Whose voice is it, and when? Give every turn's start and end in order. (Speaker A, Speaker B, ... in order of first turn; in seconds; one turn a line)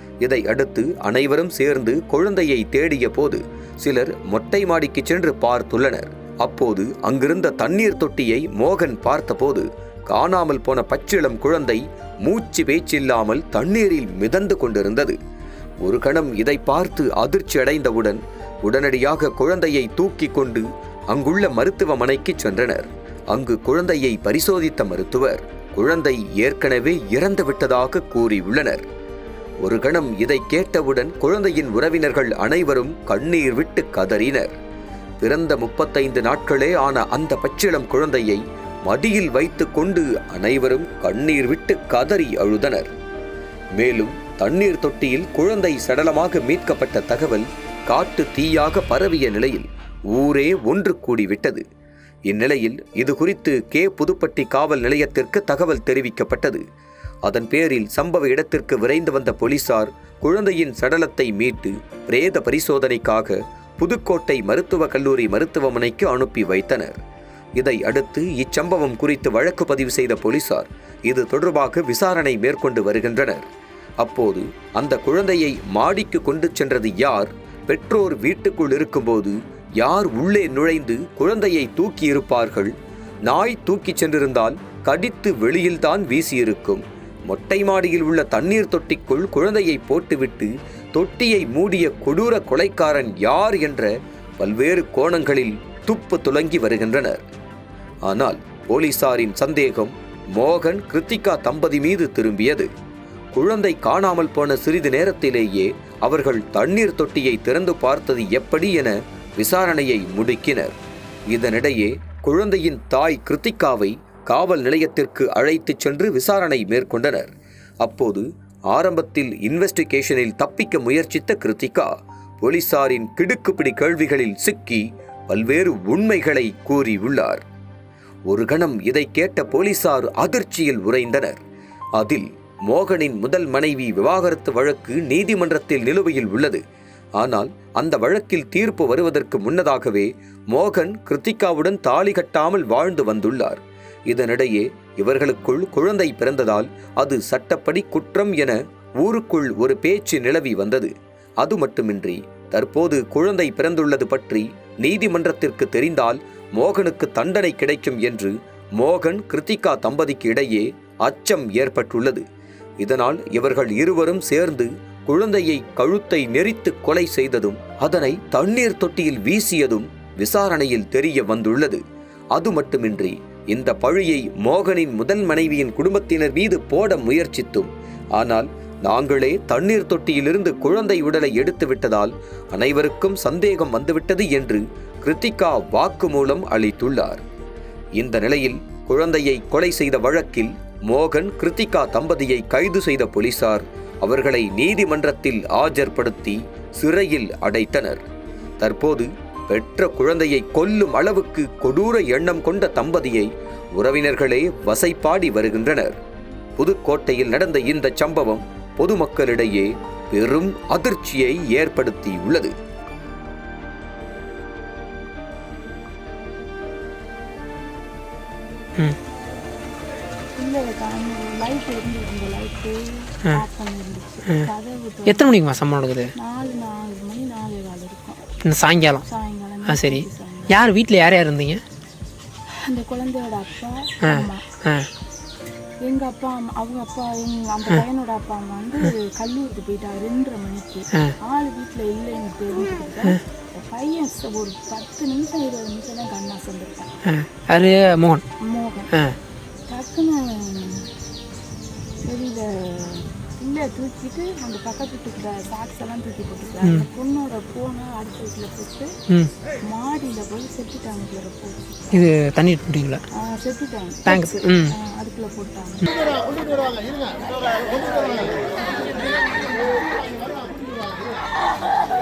Speaker A: 0.2-15.2
Speaker A: 15.8-28.8
Speaker A: 29.6-34.5
Speaker A: 35.2-42.9
Speaker A: 43.8-51.6
Speaker A: 52.3-56.6
Speaker A: 57.2-67.0
Speaker A: 67.6-73.5
Speaker A: 74.0-82.7
Speaker A: 83.2-97.2
Speaker A: 98.0-102.7
Speaker A: 103.3-110.7
Speaker A: 111.3-117.3
Speaker A: 117.8-127.4
Speaker A: 128.3-131.4
Speaker A: 132.0-136.6
Speaker A: 137.2-162.2
Speaker A: 162.8-171.8
Speaker A: 172.3-187.2
Speaker A: 188.0-198.0
Speaker A: 198.6-206.0
Speaker A: 206.6-212.5
Speaker B: 220.4-225.3
Speaker C: 225.1-226.1
Speaker B: 226.2-228.2
Speaker C: 228.4-229.0
Speaker B: 229.0-230.6
Speaker C: 229.7-231.6
Speaker B: 232.7-234.4
Speaker C: 234.0-234.9
Speaker B: 235.8-246.9
Speaker C: 247.0-248.2
Speaker B: 248.4-248.9
Speaker B: 249.7-250.9
Speaker B: 252.1-258.9
Speaker B: 259.6-261.9
Speaker C: 261.9-263.0
Speaker B: 263.1-271.0
Speaker C: 264.1-264.7